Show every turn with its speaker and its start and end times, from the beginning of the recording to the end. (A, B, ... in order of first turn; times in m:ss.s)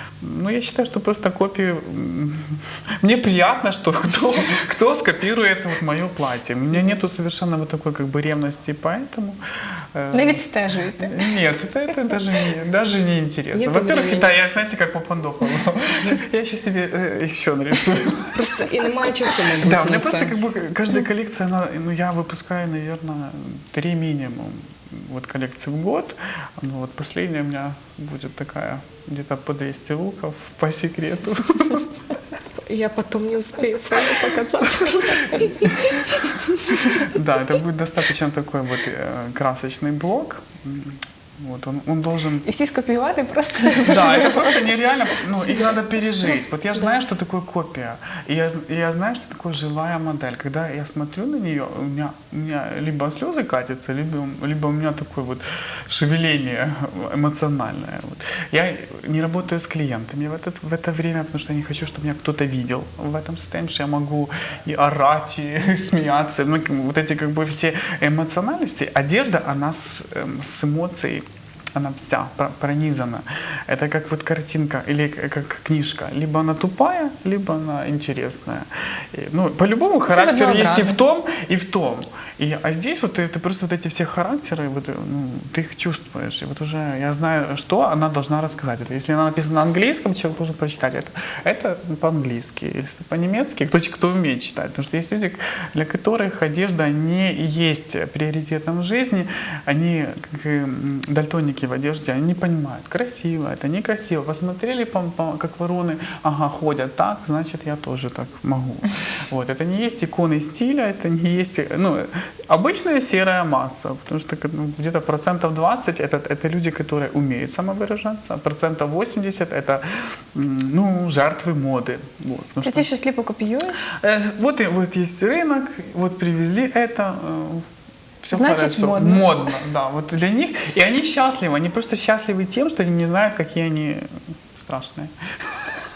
0:00.2-0:09.4 A
0:09.9-0:10.4 A
0:10.1-0:11.2 B
0:11.0-0:18.4 A
0:13.5-0:14.4 C
0:18.3-0:20.3 C
0:19.6-0:31.9 A
0:32.6-0:37.1 C
0:36.8-0:42.5 A
0:42.4-0:44.6 B
0:43.8-2:02.9 A
1:20.1-1:21.0 B
2:02.6-2:03.8 B
2:03.9-2:07.7 A
2:08.2-2:15.6 A
2:08.3-2:09.3 B